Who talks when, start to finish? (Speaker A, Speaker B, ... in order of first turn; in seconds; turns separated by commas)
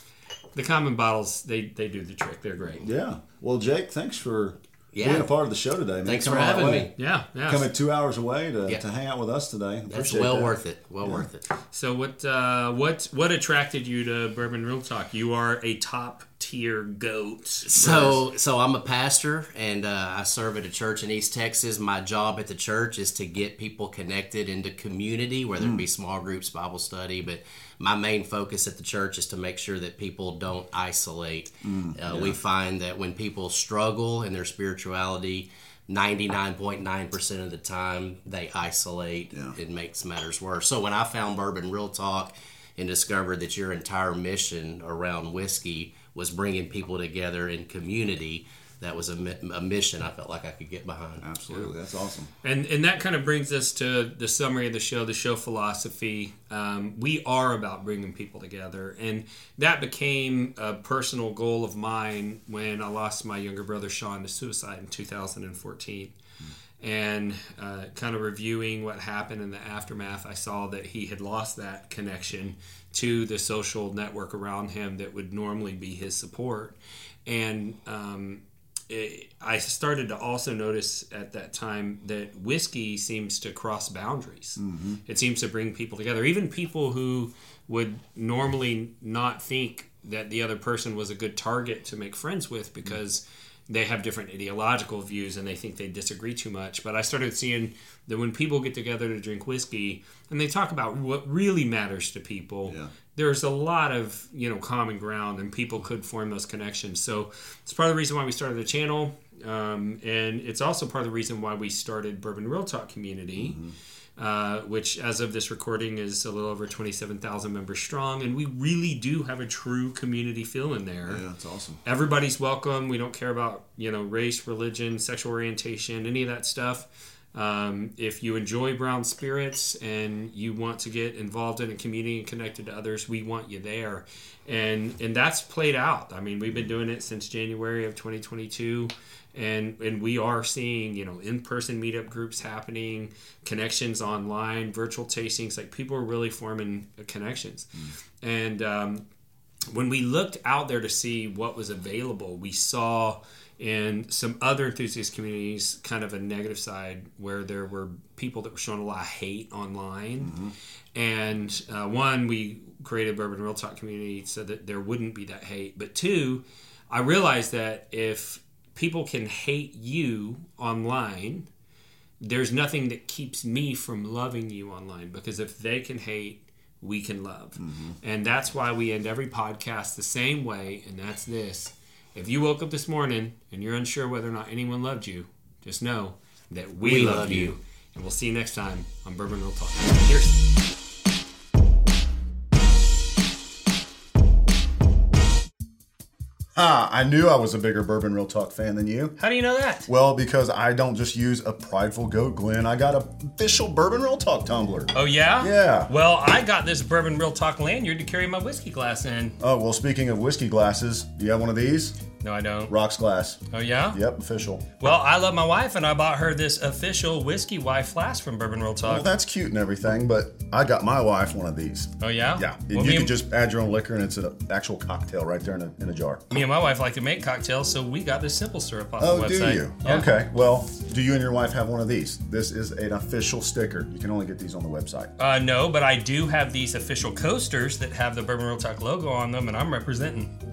Speaker A: 0.5-2.9, Speaker B: 2.8-6.9, Speaker C: 4.9-5.3, Speaker C: 6.0-6.9, Speaker A: 6.9-7.7, Speaker B: 7.5-11.3, Speaker C: 9.9-11.4, Speaker A: 11.7-17.7, Speaker C: 17.6-51.3, Speaker B: 17.8-18.2, Speaker B: 25.5-25.8, Speaker B: 31.6-32.4, Speaker B: 51.2-52.3, Speaker A: 52.4-66.1, Speaker A: 66.8-113.6, Speaker B: 84.6-85.0, Speaker B: 102.7-102.9, Speaker B: 113.3-113.7, Speaker A: 114.2-121.2, Speaker B: 121.0-121.8, Speaker A: 121.8-149.0, Speaker A: 149.7-160.3, Speaker B: 160.2-160.5, Speaker A: 160.9-171.5, Speaker A: 172.2-190.4, Speaker B: 177.6-177.9, Speaker C: 186.8-187.6, Speaker B: 196.6-199.2, Speaker A: 199.2-199.9, Speaker B: 199.8-205.9, Speaker A: 204.9-209.4, Speaker B: 209.4-212.0, Speaker A: 212.2-212.7, Speaker B: 212.7-213.4, Speaker A: 213.5-214.0, Speaker B: 213.9-214.8, Speaker A: 214.8-219.1, Speaker B: 218.8-226.5, Speaker A: 222.0-223.1, Speaker A: 226.3-230.1, Speaker B: 229.0-235.1, Speaker A: 235.2-240.3